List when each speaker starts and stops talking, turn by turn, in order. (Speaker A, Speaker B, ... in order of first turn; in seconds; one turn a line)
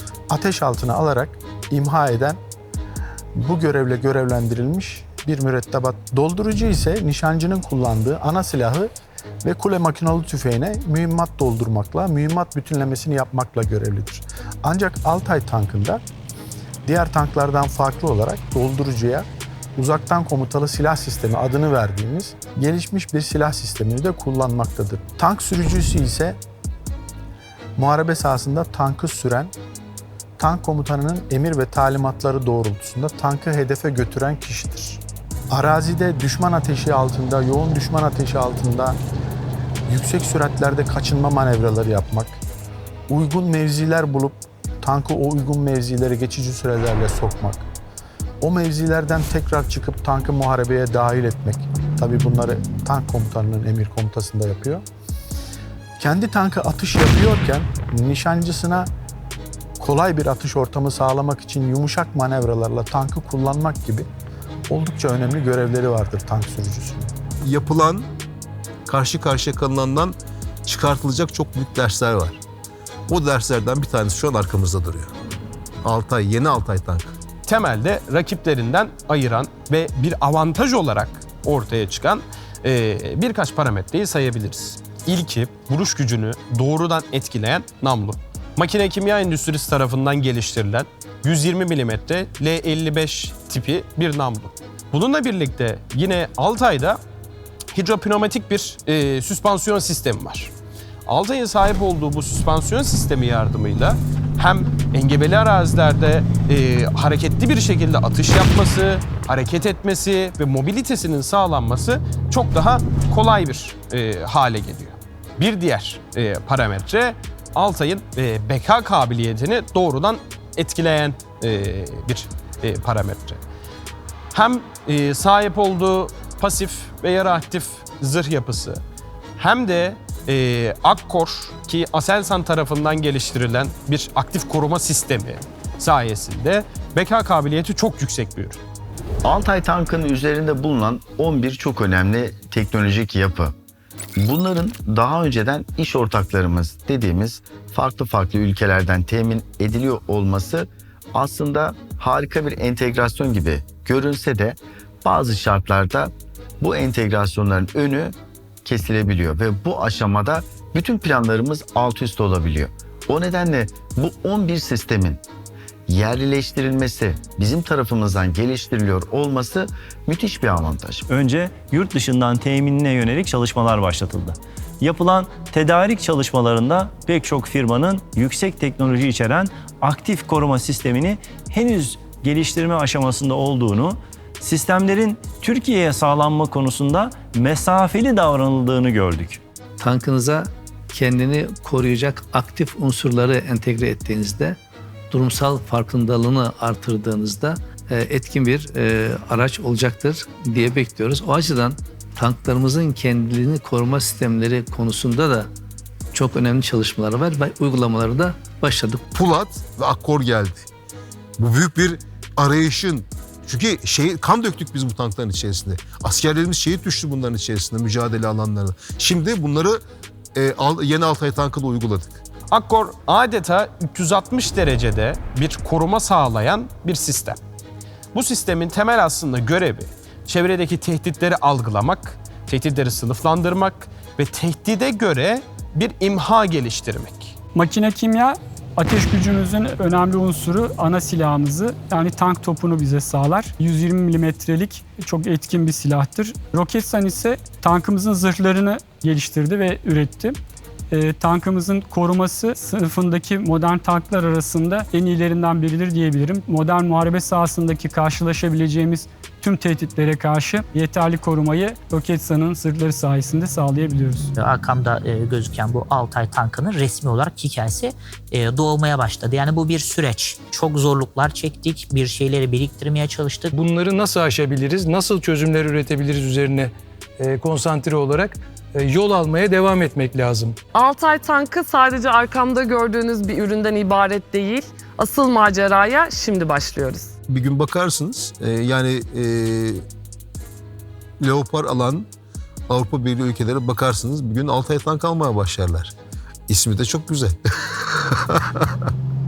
Speaker A: 0.3-2.4
Speaker A: 3.4-8.9
Speaker A: 9.4-16.0
Speaker A: 16.9-26.4
Speaker A: 27.8-29.5
Speaker A: 30.4-39.0
Speaker A: 39.9-42.4
Speaker A: 43.1-47.7
Speaker A: 48.4-54.8
Speaker A: 56.0-58.9
Speaker A: 59.8-64.1
Speaker A: 64.7-67.1
Speaker B: 67.4-68.1
Speaker B: 68.8-72.4
Speaker B: 73.1-75.1
Speaker B: 75.8-77.2
Speaker C: 77.5-97.0
Speaker C: 97.7-100.5
Speaker C: 101.0-123.4
Speaker C: 124.3-128.8
Speaker C: 129.4-138.6
Speaker D: 139.2-143.5
Speaker D: 144.2-165.2
Speaker D: 165.9-171.0
Speaker E: 171.1-189.4
Speaker F: 189.8-194.6
Speaker F: 195.1-205.5
Speaker F: 206.1-209.0
Speaker B: 209.1-210.7
Speaker B: 211.4-219.8
Speaker B: 220.3-222.2
Speaker C: 222.5-227.4
Speaker C: 228.1-237.3
Speaker G: 237.5-250.4
Speaker G: 250.9-264.3
Speaker H: 264.4-273.5
Speaker I: 273.5-280.6
Speaker J: 280.7-287.1
Speaker B: 287.3-289.8
Speaker B: 291.2-292.1
Speaker B: 292.7-295.9
Speaker B: 296.5-298.9